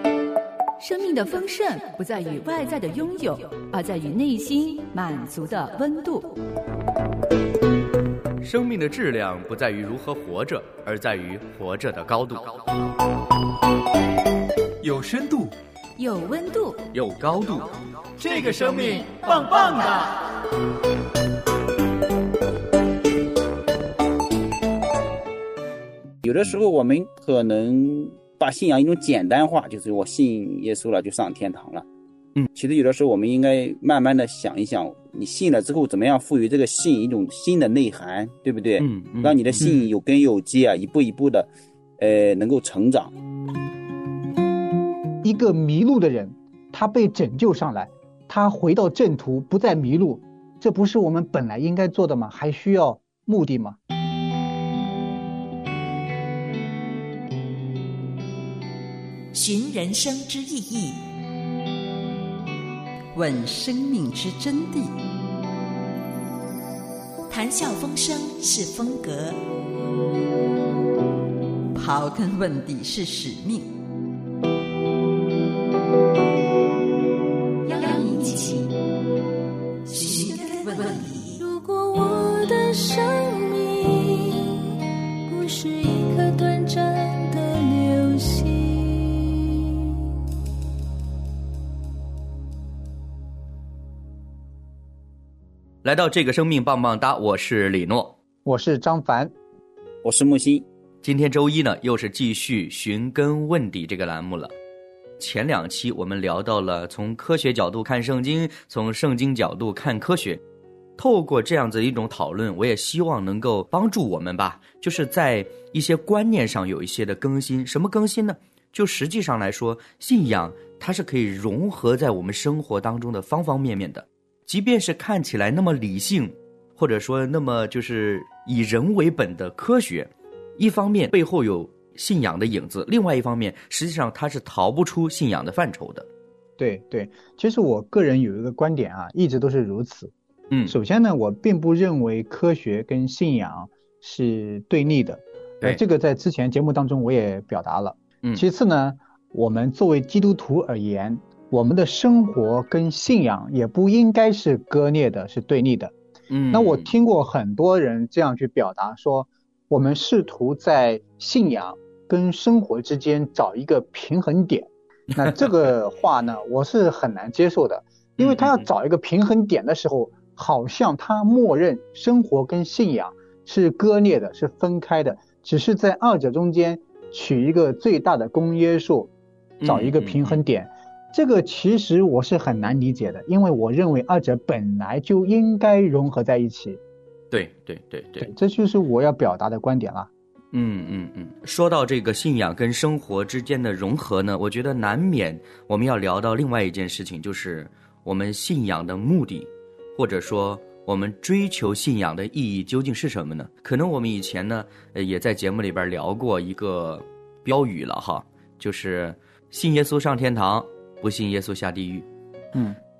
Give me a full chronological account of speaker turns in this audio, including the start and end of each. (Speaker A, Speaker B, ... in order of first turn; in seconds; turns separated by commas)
Speaker A: 0.8-6.4, Speaker B: 8.4-12.6, Speaker C: 14.8-15.5, Speaker A: 16.0-16.9, Speaker B: 16.9-17.7, Speaker C: 18.2-20.2, Speaker D: 26.2-31.8, Speaker D: 32.5-41.5, Speaker B: 38.8-39.7, Speaker D: 42.0-43.1, Speaker E: 45.2-53.8, Speaker F: 59.3-61.0, Speaker G: 63.1-64.9, Speaker F: 67.3-69.4, Speaker G: 71.7-73.7, Speaker A: 77.7-78.1, Speaker G: 77.8-78.7, Speaker A: 79.9-80.8, Speaker G: 79.9-81.4, Speaker A: 81.4-89.9, Speaker B: 95.8-98.2, Speaker E: 98.4-99.3, Speaker D: 100.0-100.6, Speaker B: 101.0-104.5, Speaker B: 105.2-110.4, Speaker B: 111.0-136.1, Speaker E: 136.6-140.1, Speaker E: 140.7-155.9, Speaker B: 156.3-156.9, Speaker E: 156.5-179.1, Speaker B: 165.2-165.5, Speaker B: 168.2-168.7, Speaker B: 179.6-180.4, Speaker E: 179.6-186.8, Speaker B: 187.3-188.3, Speaker E: 188.2-190.1, Speaker B: 190.5-212.1